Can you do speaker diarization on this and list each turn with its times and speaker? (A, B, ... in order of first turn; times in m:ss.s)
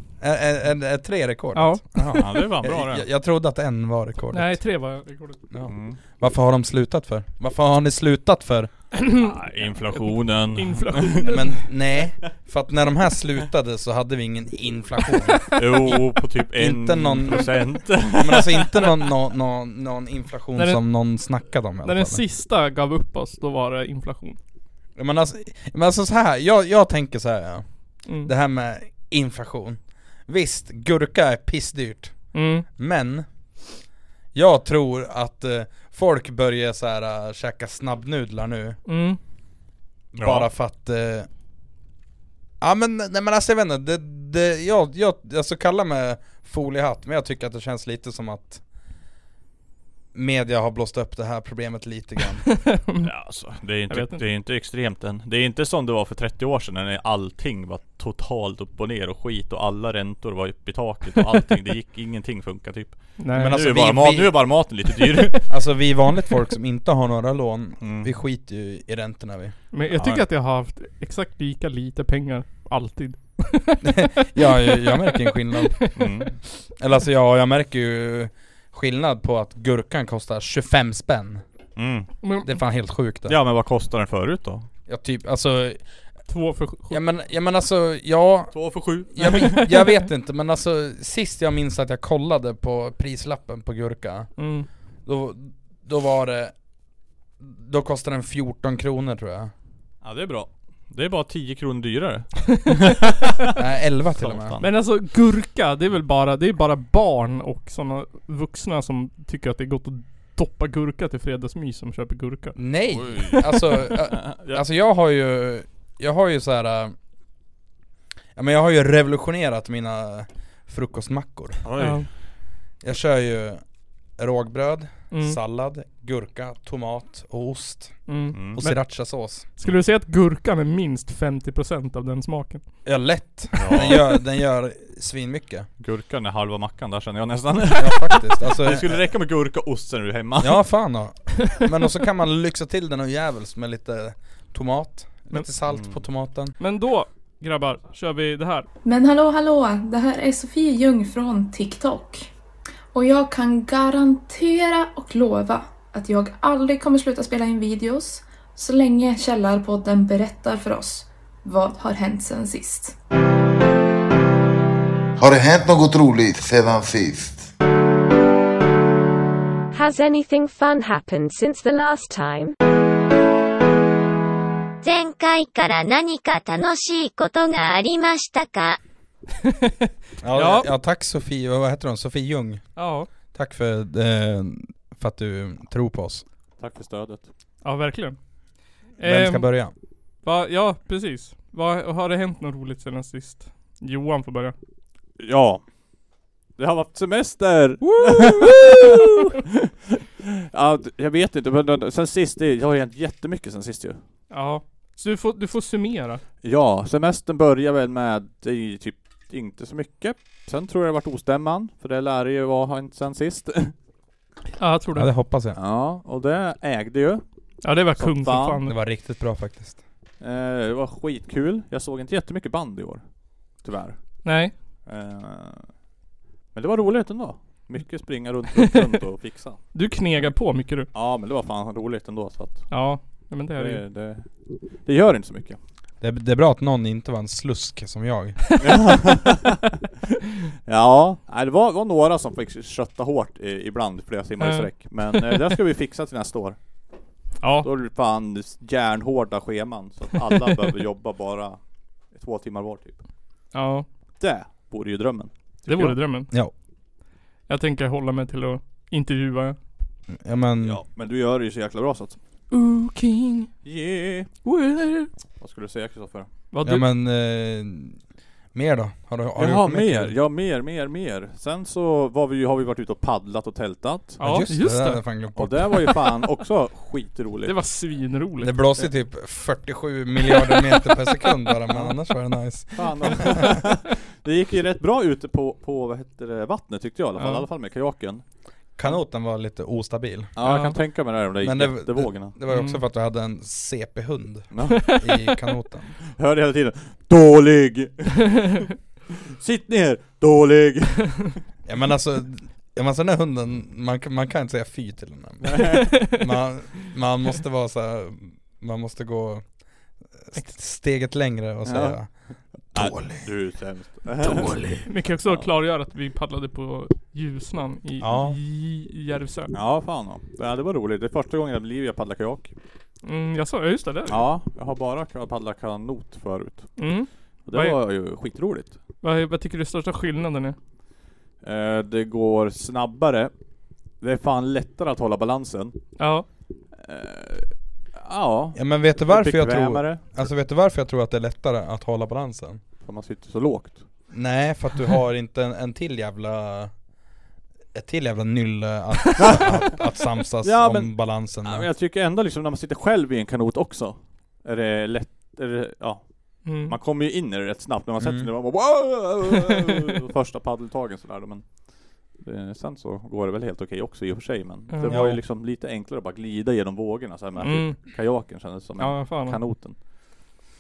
0:00.2-0:04.6 A
0:01.5-0:02.4 B
0:02.1-0:03.0 C
0:04.3-0:05.4 B
0:05.5-0:08.7 A
0:05.6-0:06.0 C
0:08.9-0:11.6 B
0:09.1-0:11.6 C
0:11.2-0:16.0 A
0:15.5-0:18.8 C
0:16.5-0:22.2 A
0:20.6-0:21.1 B
0:21.8-0:24.4 B
0:25.0-0:33.2 A
0:32.3-0:32.6 B
0:34.3-0:38.8 A
0:38.8-0:39.2 B
0:40.1-0:40.5 C
0:40.2-0:41.3 A
0:42.6-0:48.6 A
0:50.1-0:52.5 A
0:52.5-0:53.1 B
0:53.0-1:05.4 C
0:53.9-0:54.2 B
1:03.2-1:03.6 B
1:03.3-1:04.4 A
1:05.5-1:09.5 A
1:07.8-1:08.1 C
1:09.7-1:16.1 B
1:09.9-1:10.2 C
1:13.8-1:15.9 A
1:15.9-1:16.4 C
1:16.8-1:21.4 A
1:21.8-1:22.1 C
1:22.2-1:22.6 B
1:22.4-1:23.4 A
1:23.3-1:24.7 C
1:24.9-1:25.9 A
1:26.3-1:27.0 B
1:26.9-1:34.3 A
1:28.5-1:29.6 C
1:34.4-1:34.7 B
1:35.0-1:36.5 A
1:37.4-1:39.5 A
1:40.0-1:43.5 C
1:43.6-1:44.6 A
1:44.1-1:44.7 C
1:44.6-1:52.6 B
1:52.5-1:56.9 A
1:52.9-1:54.6 C
1:58.4-2:01.6 A
2:01.6-2:02.1 C
2:01.8-2:02.1 B
2:02.8-2:03.6 A
2:04.2-2:09.5 A
2:05.1-2:05.4 B
2:08.1-2:12.6 B
2:08.3-2:08.6 C
2:12.8-2:15.7 A
2:13.5-2:14.1 C
2:15.8-2:20.6 C
2:17.8-2:19.0 A
2:20.4-2:26.5 A
2:25.7-2:26.0 C
2:26.6-2:28.6 B
2:28.8-2:32.2 D
2:32.9-2:43.0 D
2:45.2-2:47.5 E
2:49.7-2:52.5 F
2:54.8-2:58.8 G
2:59.4-3:00.7 B
3:00.2-3:02.7 A
3:02.8-3:03.1 B
3:03.3-3:06.2 A
3:06.6-3:07.3 C
3:07.6-3:08.2 B
3:09.0-3:09.5 B
3:09.0-3:09.7 A
3:10.2-3:14.5 B
3:15.2-3:15.6 C
3:16.6-3:19.5 C
3:17.8-3:19.2 B
3:20.5-3:24.0 C
3:24.3-3:26.2 B
3:26.4-3:33.7 C
3:34.6-3:35.1 B
3:34.9-3:35.6 A
3:35.5-3:37.2 C
3:37.6-3:38.7 B
3:37.9-3:38.6 C
3:38.6-3:39.8 A
3:40.2-3:43.0 C
3:43.6-3:44.0 C
3:44.2-3:44.5 B
3:44.8-3:45.7 C
3:46.5-3:49.6 C
3:49.7-3:50.9 B
3:50.9-3:52.7 C
3:52.7-3:53.8 B
3:53.5-3:54.3 C
3:54.8-3:55.6 C
3:56.0-3:58.4 A
3:58.6-3:59.7 C
4:00.7-4:06.6 C
4:04.4-4:05.5 B
4:07.4-4:07.7 B
4:07.6-4:11.6 C
4:12.1-4:13.0 C
4:13.5-4:13.8 B
4:14.2-4:15.9 C
4:15.6-4:16.3 B
4:17.5-4:19.6 B
4:20.1-4:20.8 A
4:20.6-4:22.2 C
4:22.5-4:23.5 B
4:23.6-4:24.3 C
4:24.4-4:25.1 B
4:25.4-4:26.3 C
4:26.5-4:26.9 B
4:26.6-4:28.0 A
4:28.5-4:30.2 A
4:29.4-4:34.2 C
4:34.2-4:35.0 B
4:34.2-4:35.9 A
4:35.4-4:37.6 C
4:37.4-4:38.6 B
4:38.4-4:43.6 A
4:41.7-4:41.9 C
4:42.7-4:48.2 C
4:47.2-4:47.4 B
4:48.8-4:50.3 A
4:50.4-4:52.4 C
4:50.4-4:50.8 B
4:51.4-4:55.9 A
4:52.5-4:52.8 B
4:54.5-4:54.9 C
4:54.7-4:55.2 B
4:56.1-4:58.6 C
4:59.3-5:01.4 C
5:01.6-5:13.3 A
5:05.4-5:05.9 C
5:05.8-5:06.3 B
5:11.6-5:15.4 C
5:14.4-5:19.5 B
5:18.0-5:18.4 A
5:19.5-5:22.5 C
5:23.0-5:24.2 B
5:24.1-5:26.8 C
5:26.8-5:27.8 B
5:27.4-5:28.8 C
5:29.0-5:30.6 B
5:31.4-5:33.3 C
5:34.0-5:35.8 C
5:36.0-5:36.2 B
5:36.8-5:40.1 C
5:38.5-5:42.6 A
5:42.8-5:43.8 C
5:44.1-5:46.7 A
5:47.7-5:51.7 A
5:49.2-5:49.8 C
5:50.4-6:01.5 C
5:56.4-5:56.8 B
5:58.0-5:58.3 A
6:02.2-6:09.8 C
6:04.7-6:05.2 B
6:04.9-6:05.2 A
6:07.4-6:07.8 B
6:08.8-6:09.4 B